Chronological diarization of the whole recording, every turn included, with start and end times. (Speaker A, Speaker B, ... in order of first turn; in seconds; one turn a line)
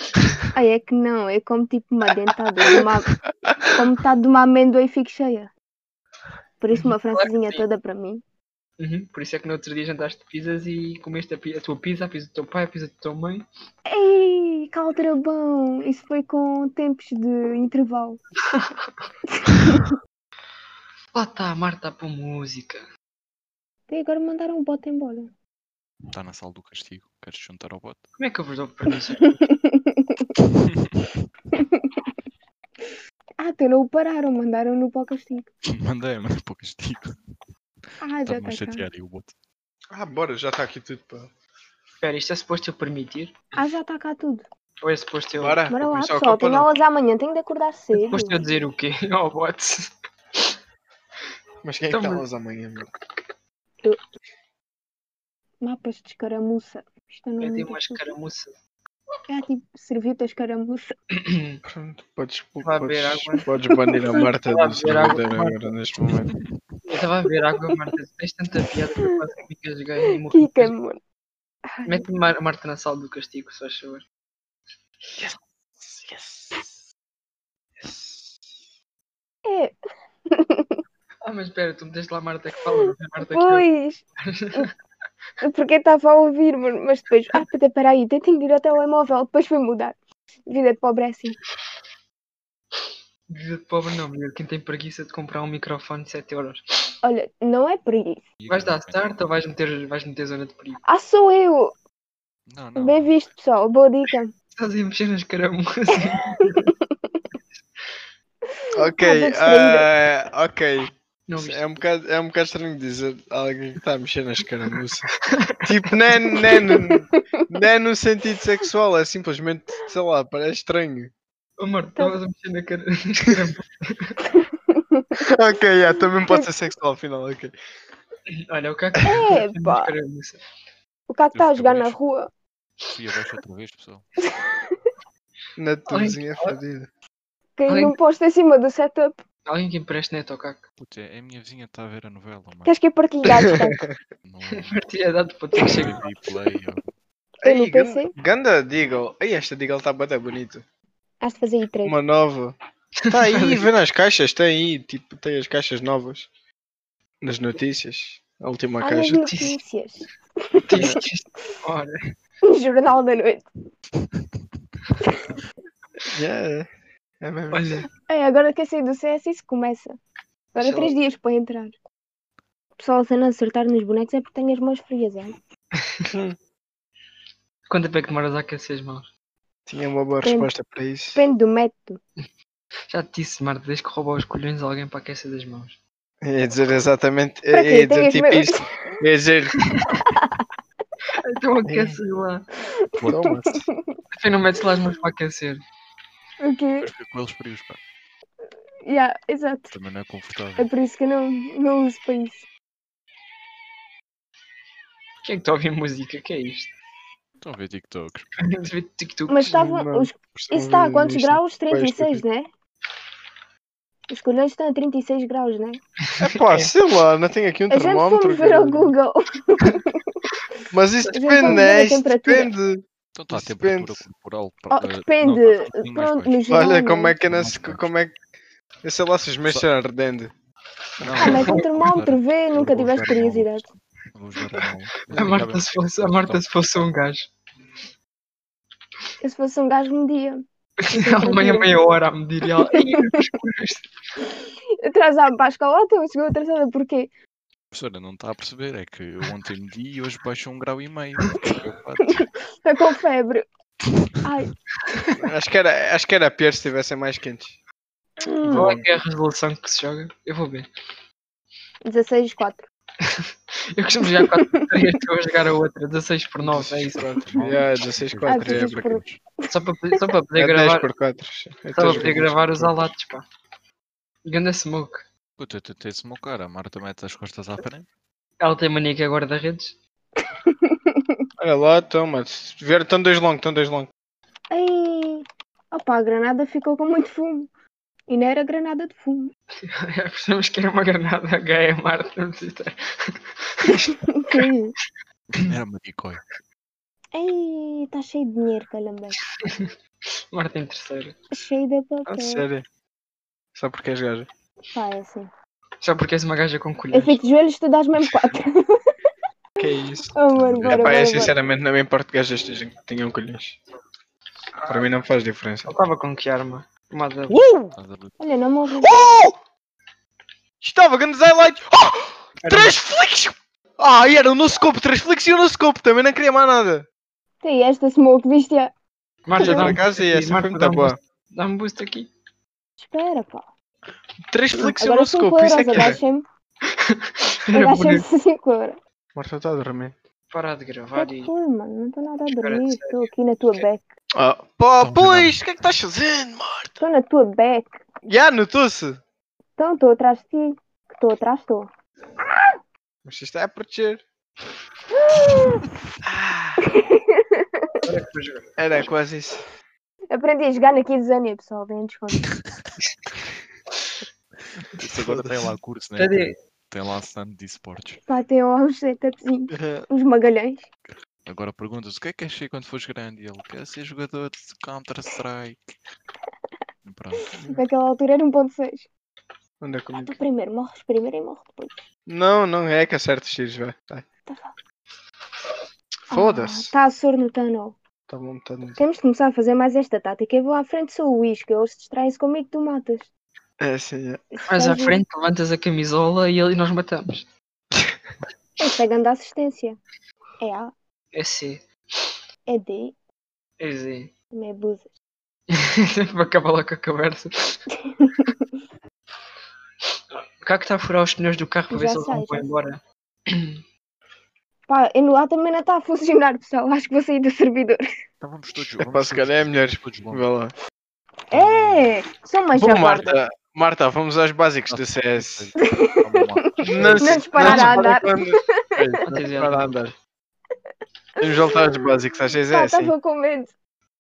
Speaker A: 0.5-3.1
Speaker A: 3.7-5.5
Speaker A: 6.6-8.2
Speaker B: 6.8-7.7
Speaker B: 8.8-13.5
Speaker A: 13.9-18.2
Speaker B: 21.1-22.8
Speaker A: 23.9-25.3
Speaker C: 26.1-28.0
Speaker B: 28.2-29.4
Speaker A: 29.5-30.2
Speaker A: 31.6-31.9
Speaker A: 33.4-35.5
Speaker C: 35.7-37.2
Speaker A: 38.0-38.9
Speaker C: 38.2-39.3
Speaker D: 39.9-41.3
Speaker B: 42.0-43.4
Speaker A: 43.6-44.5
Speaker B: 44.8-45.6
Speaker D: 45.4-46.7
Speaker A: 45.7-48.4
Speaker B: 48.0-49.9
Speaker D: 51.6-52.9
Speaker B: 51.9-52.2
Speaker A: 55.6-58.0
Speaker B: 57.4-58.6
Speaker A: 59.3-60.9
Speaker D: 61.6-66.3
Speaker B: 62.6-63.5
Speaker A: 63.9-64.3
Speaker B: 64.5-65.7
Speaker C: 66.0-66.8
Speaker B: 66.9-70.7
Speaker A: 70.3-71.0
Speaker A: 71.6-72.0
Speaker B: 71.9-74.0
Speaker D: 75.2-76.7
Speaker D: 77.8-78.4
Speaker A: 79.5-79.7
Speaker A: 80.3-80.8
Speaker B: 81.2-83.7
Speaker A: 83.3-84.7
Speaker B: 84.2-84.6
Speaker A: 85.4-91.4
Speaker B: 93.3-96.6
Speaker A: 97.0-98.3
Speaker C: 98.4-99.1
Speaker B: 98.5-100.8
Speaker A: 100.8-101.7
Speaker C: 102.5-103.1
Speaker A: 102.8-104.3
Speaker B: 104.6-106.7
Speaker A: 108.7-109.9
Speaker D: 108.7-115.1
Speaker B: 111.3-111.8
Speaker D: 115.6-121.1
Speaker A: 116.7-117.2
Speaker B: 121.6-124.1
Speaker A: 124.7-125.2
Speaker D: 125.2-127.5
Speaker B: 128.5-130.4
Speaker A: 129.1-129.9
Speaker A: 131.1-132.3
Speaker C: 131.3-132.0
Speaker C: 132.9-134.1
Speaker A: 134.3-134.8
Speaker D: 135.6-136.9
Speaker B: 135.9-136.6
Speaker A: 137.6-139.2
Speaker B: 137.7-138.0
Speaker B: 139.5-140.6
Speaker C: 140.8-142.8
Speaker A: 142.7-143.8
Speaker C: 144.2-144.8
Speaker B: 144.7-146.0
Speaker C: 145.8-146.9
Speaker A: 147.4-148.1
Speaker D: 147.4-150.6
Speaker A: 151.2-152.0
Speaker D: 151.8-152.6
Speaker D: 153.1-156.3
Speaker B: 153.1-153.7
Speaker D: 157.2-159.3
Speaker A: 158.8-160.9
Speaker B: 159.3-159.6
Speaker B: 160.7-161.9
Speaker A: 162.5-163.4
Speaker D: 166.1-166.7
Speaker D: 167.2-167.8
Speaker B: 167.5-167.9
Speaker A: 168.1-170.0
Speaker A: 170.5-171.7
Speaker B: 170.6-170.9
Speaker A: 172.8-175.3
Speaker D: 176.1-176.3
Speaker B: 177.7-179.1
Speaker D: 179.7-181.2
Speaker A: 180.2-180.5
Speaker A: 181.1-182.0
Speaker B: 182.9-185.8
Speaker D: 186.2-189.5
Speaker A: 187.5-189.0
Speaker A: 190.2-190.4
Speaker B: 191.2-192.5
Speaker D: 191.7-192.0
Speaker A: 192.9-194.0
Speaker D: 193.1-193.6
Speaker B: 194.2-195.6
Speaker A: 196.4-196.9
Speaker C: 196.8-197.8
Speaker A: 198.8-199.8
Speaker C: 199.7-200.7
Speaker A: 200.6-202.4
Speaker B: 205.2-206.7
Speaker C: 207.4-208.3
Speaker B: 208.5-209.4
Speaker A: 209.3-212.5
Speaker D: 209.5-212.2
Speaker A: 214.1-215.8
Speaker D: 216.2-218.9
Speaker B: 216.4-216.7
Speaker A: 217.7-220.1
Speaker D: 220.7-224.0
Speaker A: 221.1-222.5
Speaker C: 223.2-226.5
Speaker A: 224.7-227.2
Speaker D: 226.5-228.2
Speaker C: 227.2-227.9
Speaker D: 228.8-230.3
Speaker C: 231.0-236.5
Speaker A: 231.2-233.7
Speaker B: 231.2-231.6
Speaker B: 235.1-237.3
Speaker A: 239.2-241.9
Speaker B: 240.9-243.9
Speaker A: 244.8-247.1
Speaker C: 247.7-252.3
Speaker A: 252.2-253.4
Speaker A: 254.2-254.5
Speaker D: 255.2-257.6
Speaker A: 258.2-258.7
Speaker D: 258.4-258.8
Speaker B: 258.5-260.7
Speaker A: 261.8-262.7
Speaker B: 263.7-267.2
Speaker A: 264.5-264.8
Speaker C: 266.4-269.2
Speaker D: 267.4-268.8
Speaker A: 268.2-269.5
Speaker B: 269.5-270.9
Speaker D: 270.4-272.2
Speaker B: 271.7-273.2
Speaker C: 271.8-272.9
Speaker B: 274.2-275.0
Speaker C: 275.4-277.9
Speaker B: 278.4-279.8
Speaker A: 280.5-281.0
Speaker D: 281.4-283.9
Speaker A: 284.5-287.5
Speaker A: 288.1-289.3
Speaker B: 289.6-292.7
Speaker B: 293.6-294.4
Speaker A: 294.1-294.7
Speaker C: 295.4-296.2
Speaker A: 297.1-299.1
Speaker B: 299.4-299.7
Speaker B: 300.3-301.2
Speaker A: 301.3-302.4
Speaker D: 302.1-302.6
Speaker D: 303.5-304.3
Speaker A: 304.7-305.3
Speaker B: 305.8-307.2
Speaker A: 306.9-308.8
Speaker B: 309.6-310.1
Speaker A: 310.1-311.3
Speaker C: 310.3-311.2
Speaker D: 310.7-313.6
Speaker D: 314.6-315.7
Speaker B: 315.7-317.4
Speaker D: 317.3-317.7
Speaker C: 317.7-318.2
Speaker A: 318.2-318.9
Speaker D: 318.8-319.4
Speaker D: 320.6-326.9
Speaker B: 322.4-322.8
Speaker A: 327.4-328.7
Speaker B: 329.2-332.1
Speaker A: 329.4-329.8
Speaker D: 329.4-331.0
Speaker A: 332.8-333.5
Speaker D: 334.3-336.0
Speaker A: 334.5-336.2
Speaker B: 336.9-338.0
Speaker A: 337.5-338.8
Speaker D: 339.1-339.9
Speaker B: 340.3-341.3
Speaker A: 340.9-343.8
Speaker B: 342.3-343.7
Speaker D: 344.1-346.8
Speaker C: 344.8-345.4
Speaker A: 346.8-347.8
Speaker D: 348.1-349.0
Speaker A: 349.6-351.7
Speaker D: 353.0-354.0
Speaker A: 355.1-355.6
Speaker D: 356.0-356.7
Speaker A: 356.7-357.4
Speaker B: 357.8-358.5
Speaker D: 358.6-359.4
Speaker A: 360.1-362.2
Speaker D: 364.6-365.5
Speaker C: 364.8-368.0
Speaker B: 366.0-366.3
Speaker A: 368.1-370.7
Speaker D: 369.5-369.9
Speaker C: 370.9-375.7
Speaker C: 376.8-377.3
Speaker A: 377.3-378.9
Speaker D: 377.3-377.6
Speaker D: 379.6-380.2
Speaker A: 379.9-381.9
Speaker D: 382.1-384.0
Speaker A: 384.2-384.5
Speaker A: 386.1-387.8
Speaker D: 386.1-386.7
Speaker D: 388.1-388.8
Speaker A: 388.8-393.1
Speaker D: 393.6-394.2
Speaker A: 394.3-395.0
Speaker B: 394.5-397.3
Speaker A: 398.6-399.8
Speaker A: 400.4-400.7
Speaker B: 401.1-401.7
Speaker A: 402.5-402.9
Speaker B: 403.6-404.1
Speaker A: 404.3-404.9
Speaker B: 405.8-407.6
Speaker A: 408.0-408.3
Speaker B: 410.1-412.8
Speaker A: 411.7-412.5
Speaker B: 413.3-413.6
Speaker A: 414.7-417.8
Speaker C: 418.2-420.2
Speaker D: 418.8-420.5
Speaker A: 421.3-423.2
Speaker C: 421.3-421.9
Speaker D: 422.5-425.5
Speaker C: 424.7-427.6
Speaker A: 426.6-428.5
Speaker D: 426.7-429.9
Speaker B: 429.1-429.8
Speaker A: 431.2-431.9
Speaker D: 431.2-432.9
Speaker A: 432.5-433.5